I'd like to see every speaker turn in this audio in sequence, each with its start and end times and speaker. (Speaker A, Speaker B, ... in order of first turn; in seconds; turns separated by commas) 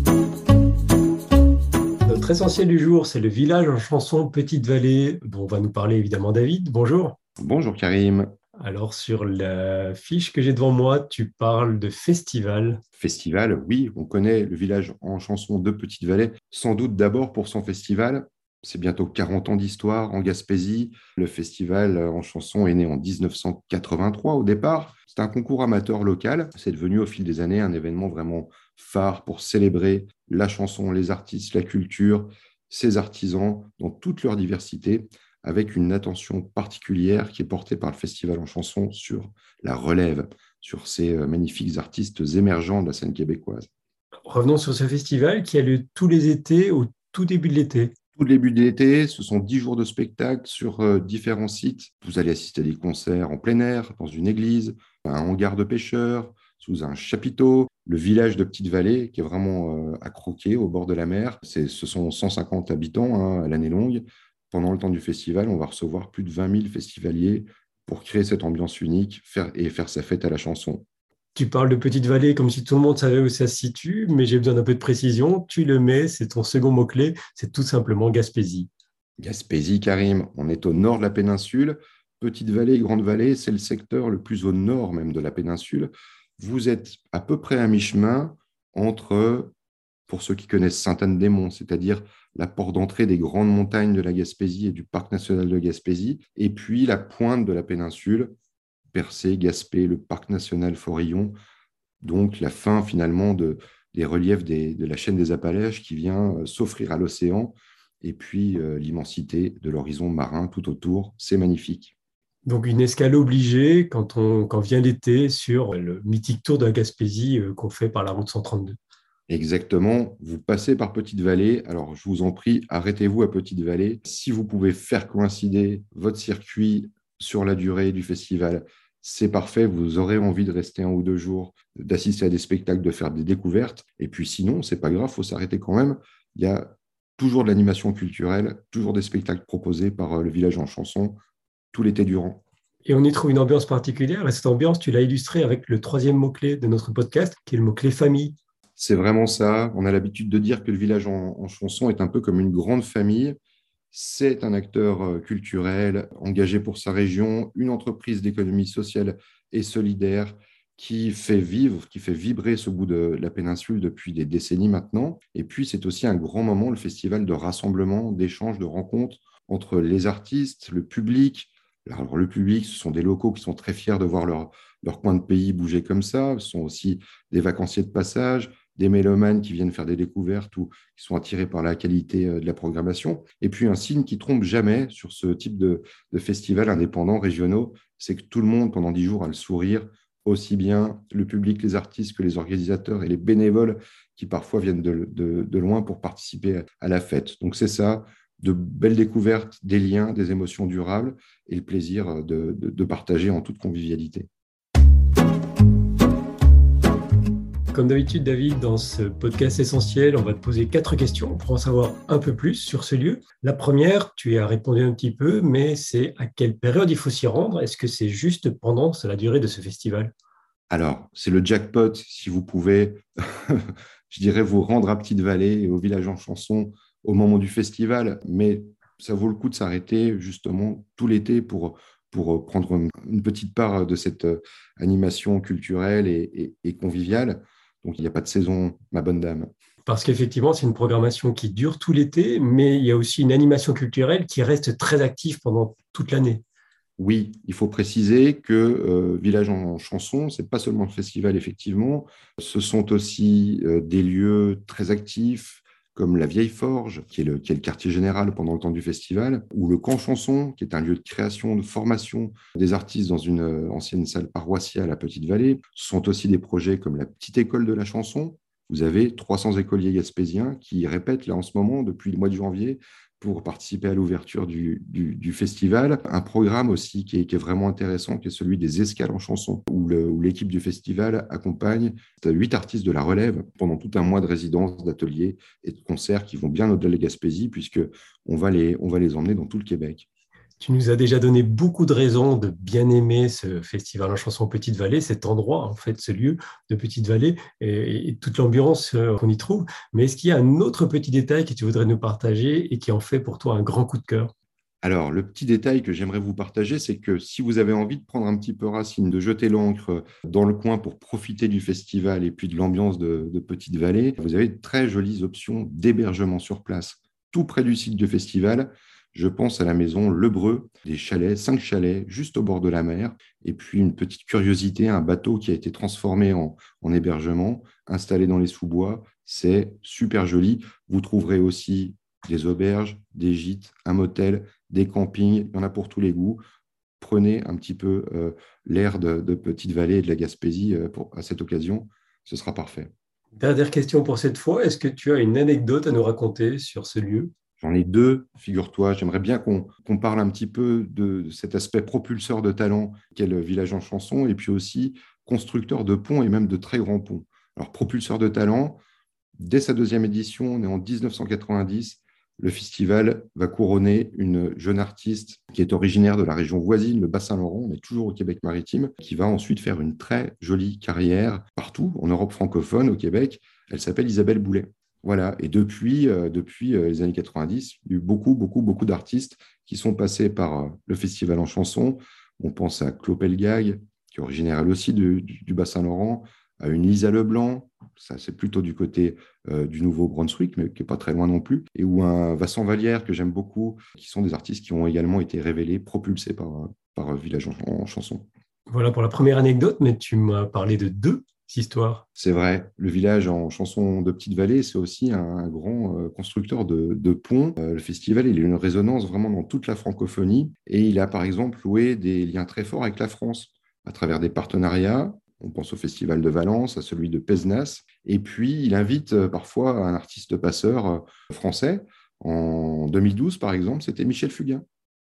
Speaker A: 2.0-7.2, Speaker B: 7.4-8.3, Speaker A: 8.6-12.8, Speaker B: 13.0-43.7, Speaker A: 44.3-47.9, Speaker B: 48.1-70.8, Speaker A: 71.3-78.7, Speaker B: 79.2-89.5, Speaker B: 90.1-98.3, Speaker B: 98.9-101.3, Speaker B: 102.0-111.9, Speaker A: 112.5-118.8, Speaker B: 119.3-141.2, Speaker B: 141.7-142.4, Speaker A: 142.8-148.3, Speaker B: 148.8-153.4, Speaker B: 153.9-204.3, Speaker A: 207.7-220.1, Speaker B: 220.7-239.5, Speaker A: 239.8-246.4, Speaker B: 247.0-290.1, Speaker A: 290.6-304.3, Speaker B: 304.8-336.4, Speaker B: 337.0-342.9, Speaker A: 343.4-347.3, Speaker B: 347.6-358.8, Speaker B: 359.4-398.2, Speaker A: 398.7-402.0, Speaker B: 402.1-424.6